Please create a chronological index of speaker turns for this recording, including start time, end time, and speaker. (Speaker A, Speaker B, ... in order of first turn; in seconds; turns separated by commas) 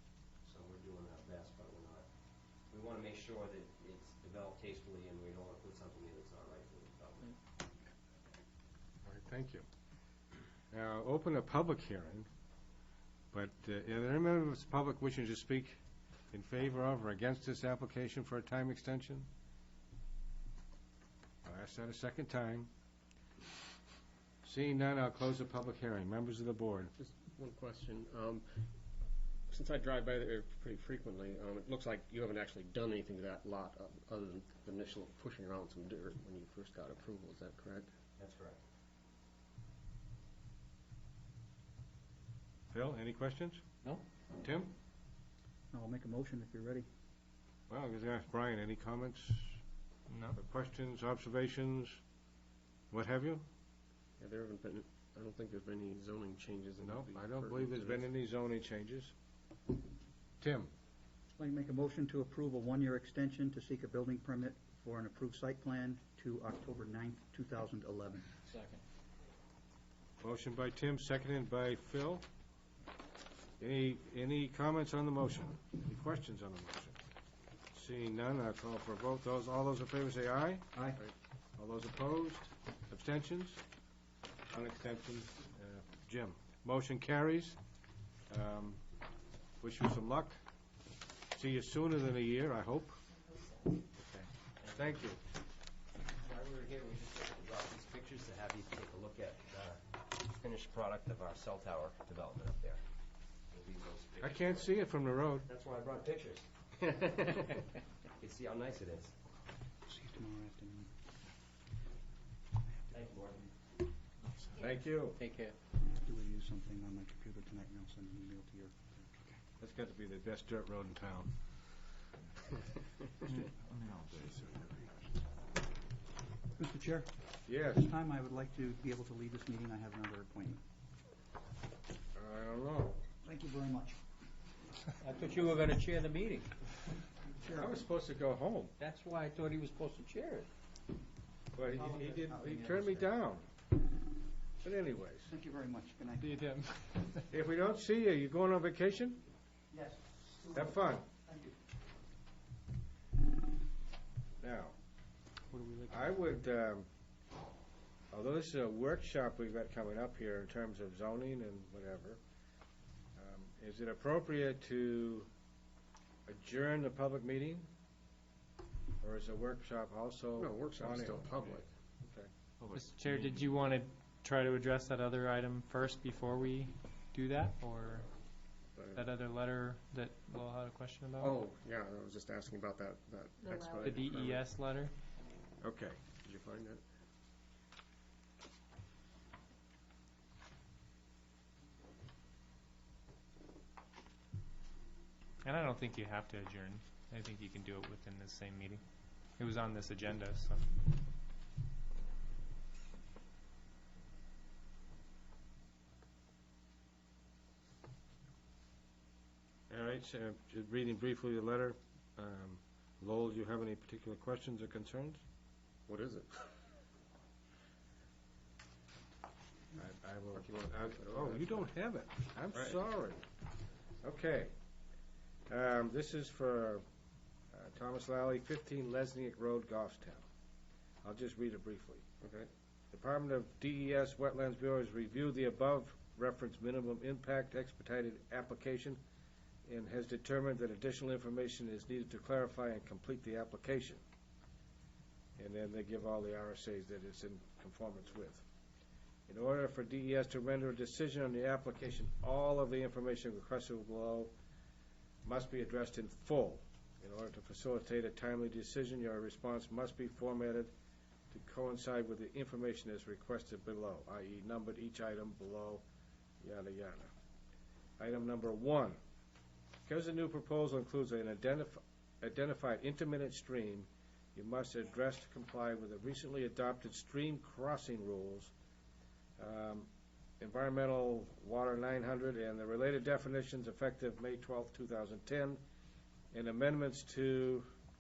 Speaker A: 0.4-2.1, Speaker A: 2.7-7.4, Speaker B: 9.0-9.7, Speaker B: 10.7-12.3, Speaker B: 13.3-15.8, Speaker B: 16.3-19.3, Speaker B: 21.4-22.7, Speaker B: 24.4-26.9, Speaker C: 27.0-28.6, Speaker C: 29.5-37.9, Speaker A: 38.2-38.6, Speaker B: 42.7-43.6, Speaker B: 44.3-44.7, Speaker D: 45.7-46.9, Speaker B: 47.7-49.6, Speaker E: 50.1-50.4, Speaker B: 50.3-52.0, Speaker B: 52.9-53.4, Speaker C: 54.2-58.1, Speaker B: 56.8-59.1, Speaker B: 60.4-60.7, Speaker D: 61.4-68.3, Speaker F: 68.5-68.8, Speaker B: 70.2-72.2, Speaker B: 73.6-77.0, Speaker B: 77.7-80.8, Speaker B: 81.6-83.6, Speaker B: 84.5-87.6, Speaker B: 88.3-88.8, Speaker B: 89.6-90.4, Speaker B: 91.3-93.0, Speaker A: 94.6-95.0, Speaker B: 94.7-95.2, Speaker A: 96.1-102.8, Speaker A: 103.5-104.8, Speaker B: 104.2-105.5, Speaker A: 105.4-107.5, Speaker A: 108.2-109.1, Speaker D: 109.9-110.9, Speaker A: 112.9-113.5, Speaker B: 114.5-115.2, Speaker F: 115.2-115.5, Speaker D: 115.8-119.4, Speaker B: 119.6-121.3, Speaker B: 124.3-124.7, Speaker D: 126.6-127.1, Speaker B: 127.5-127.9, Speaker D: 127.7-130.6, Speaker B: 132.1-133.0, Speaker D: 133.2-134.0, Speaker F: 135.0-136.6, Speaker D: 137.3-137.8, Speaker B: 137.5-138.7, Speaker F: 138.8-140.5, Speaker B: 141.5-143.5, Speaker D: 141.7-143.1, Speaker B: 144.6-145.3, Speaker D: 145.3-146.5, Speaker B: 147.3-149.2, Speaker D: 149.7-151.5, Speaker B: 150.5-151.1, Speaker B: 154.4-154.7, Speaker F: 155.5-156.0, Speaker B: 155.8-156.9, Speaker B: 158.1-162.2, Speaker B: 163.2-165.3, Speaker B: 166.3-167.7, Speaker B: 169.0-172.3, Speaker C: 170.4-171.7, Speaker E: 172.7-178.1, Speaker C: 178.7-179.1, Speaker E: 178.9-181.4, Speaker C: 181.2-184.5, Speaker E: 183.8-184.9, Speaker B: 185.6-186.0, Speaker C: 186.1-186.8, Speaker E: 195.4-198.8, Speaker E: 199.4-200.6, Speaker B: 209.7-215.2, Speaker C: 215.9-216.5, Speaker B: 219.7-223.2, Speaker C: 220.3-221.7, Speaker C: 222.5-222.8, Speaker B: 224.0-224.5, Speaker B: 225.5-226.8, Speaker B: 227.5-230.2, Speaker B: 231.0-232.1, Speaker C: 232.2-232.5, Speaker B: 232.9-239.0, Speaker B: 239.7-244.0, Speaker B: 245.4-248.4, Speaker B: 249.3-254.3, Speaker B: 255.2-260.7, Speaker B: 261.3-265.8, Speaker B: 266.4-267.1, Speaker B: 268.0-269.0, Speaker B: 269.9-278.5, Speaker B: 279.4-279.9, Speaker B: 280.4-285.6, Speaker B: 286.3-287.7